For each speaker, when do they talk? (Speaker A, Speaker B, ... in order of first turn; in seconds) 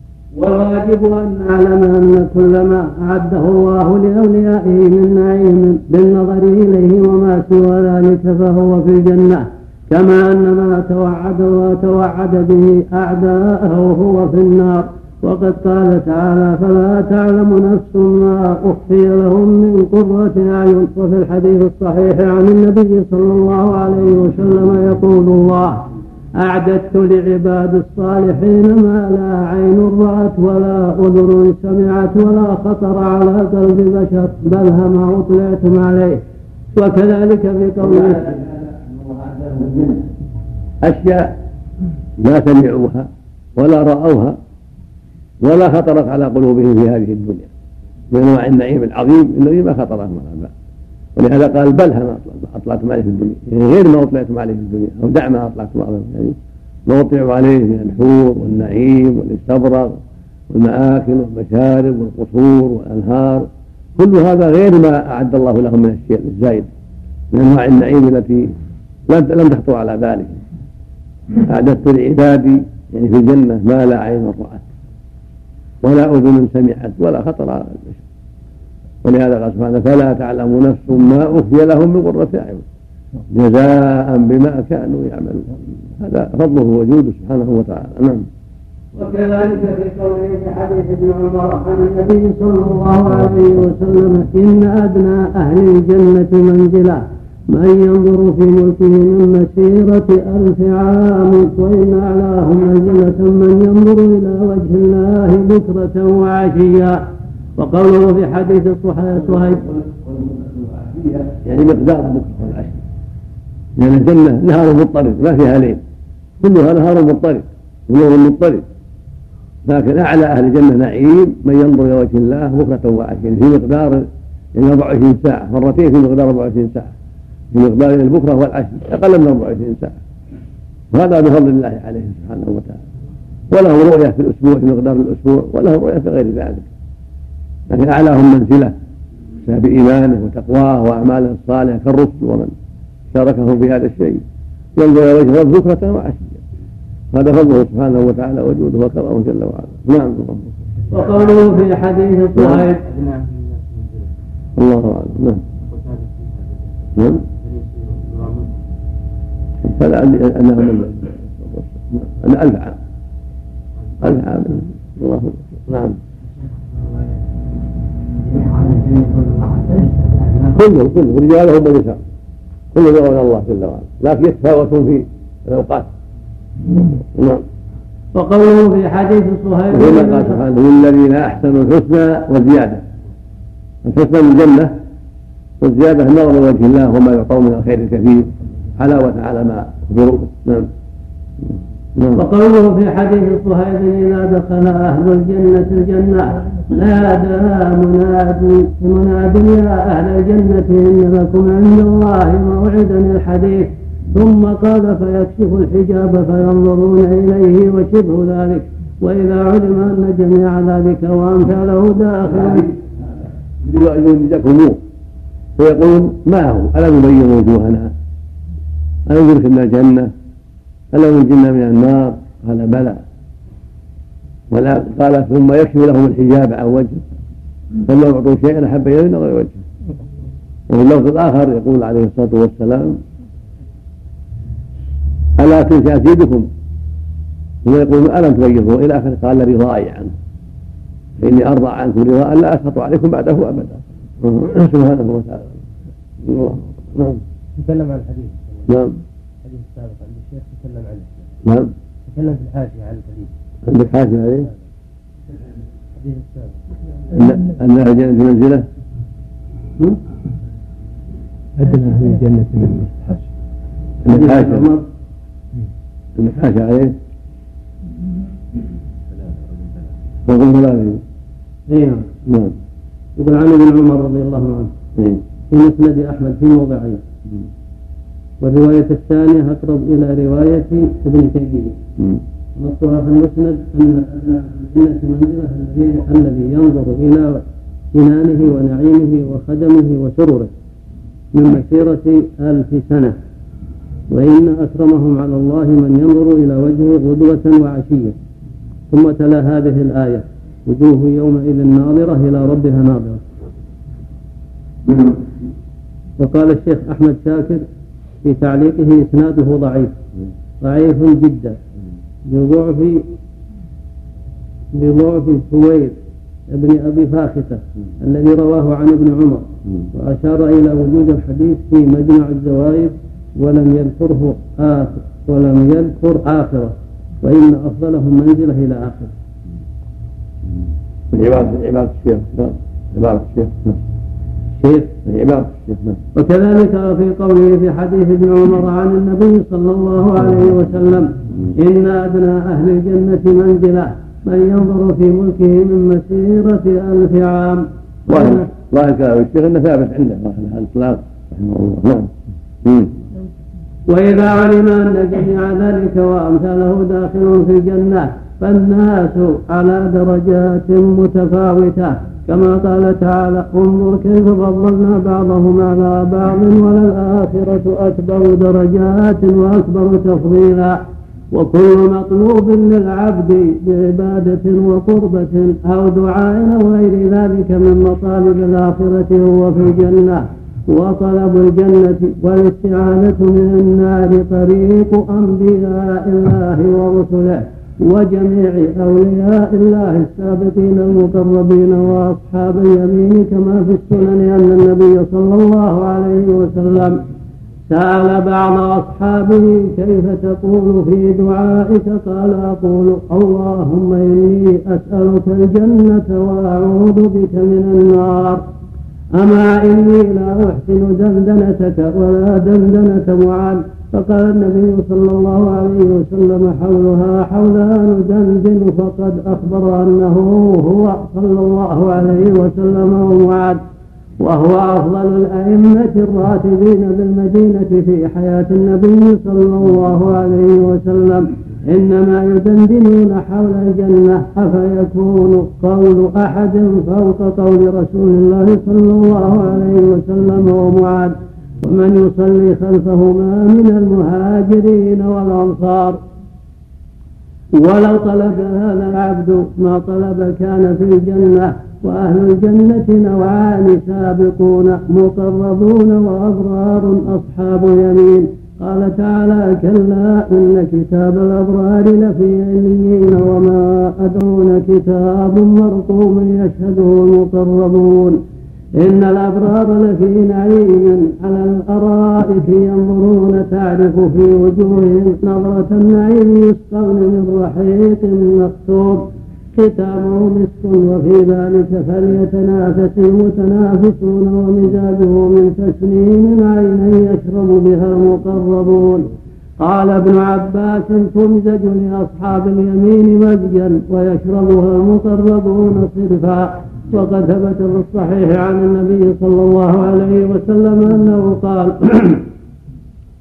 Speaker A: 0.3-25.8, 26.4-36.2, 36.7-38.3, 88.9-107.0, 107.5-109.7, 150.9-152.8, 178.1-180.4, 192.1-212.7, 264.1-264.8, 271.7-272.1, 273.2-274.7, 275.5-277.0, 278.4-281.8, 282.6-290.5, 291.3-293.1, 294.1-298.1, 298.9-303.2, 306.2-307.6, 308.2-309.9, 310.6-311.6, 312.2-313.0, 314.7-315.9, 316.5-329.1, 334.6-334.9, 336.1-348.5, 353.9-370.8, 371.3-397.0, 397.7-408.4, 409.1-423.6, 424.2-446.0, 447.6-468.2, 468.8-502.3
Speaker B: 39.5-39.9, 40.8-41.3, 42.2-44.4, 45.4-47.5, 48.1-50.5, 51.1-56.4, 56.9-60.0, 60.5-66.7, 67.3-68.5, 69.1-70.4, 71.4-74.6, 75.8-78.0, 79.0-82.6, 83.3-88.2, 111.4-112.8, 113.8-115.8, 116.4-118.6, 119.6-126.9, 127.5-130.0, 130.9-132.8, 133.5-136.7, 137.7-138.7, 139.4-142.5, 143.1-144.2, 144.8-146.4, 147.1-150.5, 152.3-152.6, 154.6-155.4, 156.9-157.2, 159.6-162.8, 164.0-166.0, 170.5-172.0, 172.7-175.9, 177.1-177.4, 179.7-182.8, 183.8-184.7, 185.6-190.7, 191.9-192.2, 213.6-214.8, 215.6-217.9, 219.1-220.1, 220.9-223.0, 224.5-227.0, 227.8-229.6, 230.7-233.0, 235.4-236.5, 237.6-240.1, 241.2-245.6, 246.2-247.2, 248.7-249.0, 251.4-251.7, 253.6-254.5, 257.1-258.6, 261.6-262.9, 264.0-264.7, 266.1-266.9, 270.2-271.0, 272.2-272.6, 274.9-275.2, 331.1-333.8, 335.0-336.0, 348.1-352.9
Speaker C: 109.9-111.3, 152.8-154.1, 155.6-158.6, 166.6-167.1, 168.2-170.5, 247.6-248.7, 249.4-251.2, 252.1-253.3, 255.9-256.6